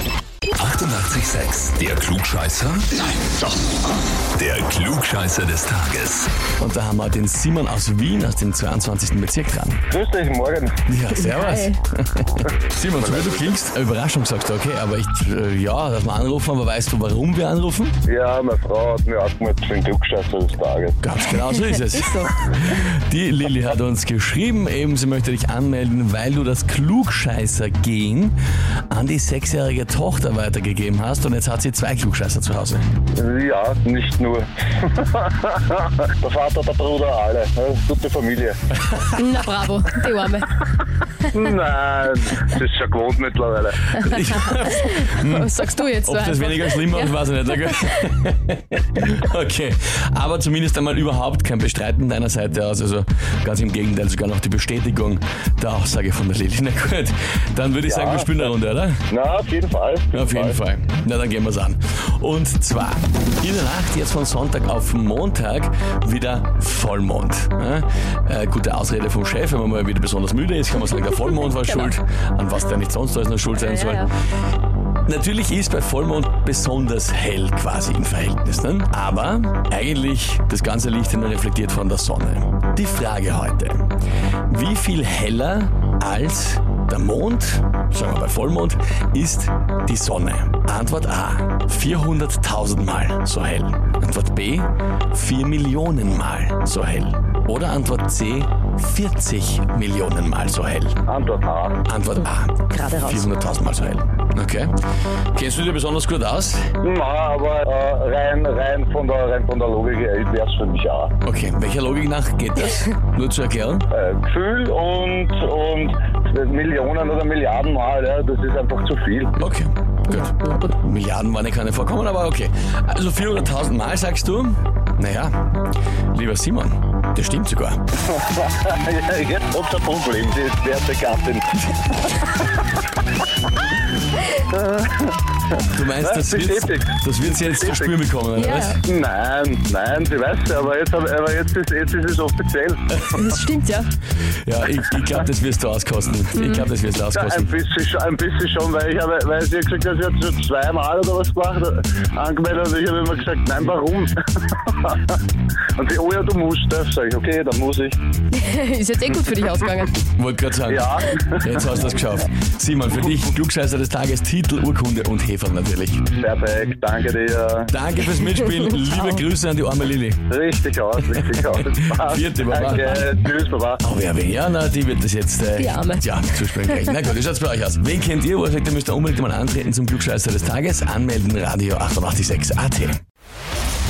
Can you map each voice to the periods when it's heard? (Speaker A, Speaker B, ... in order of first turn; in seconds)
Speaker A: 0.5-3.3, 4.3-6.3
Speaker B: 6.6-9.8, 10.8-17.9, 21.0-28.4, 28.9-32.8, 44.0-59.0, 60.1-74.1, 75.0-83.8, 84.5-101.0, 101.8-104.7, 105.3-106.7, 111.2-113.8, 119.4-125.5, 126.1-127.8, 135.7-138.8, 144.4-147.5, 160.2-166.1, 167.7-170.2, 171.2-173.0, 173.8-183.0
Speaker C: 9.9-10.8, 12.9-13.5, 18.1-21.0, 33.1-38.6, 41.3-44.1, 57.9-58.5, 59.1-60.6, 101.1-101.8, 106.8-111.1, 113.9-119.3, 128.1-131.6, 132.2-132.4, 134.3-135.2, 136.0-138.0, 138.8-143.4, 147.1-155.1, 155.8-158.0, 160.7-161.7, 166.2-167.7, 170.3-173.8
Speaker D: 11.2-11.8, 39.1-40.5, 44.8-47.2, 73.6-74.1, 102.7-103.2, 120.1-120.7, 138.3-138.8, 143.1-143.9, 146.3-146.7, 158.3-160.0, 175.6-176.1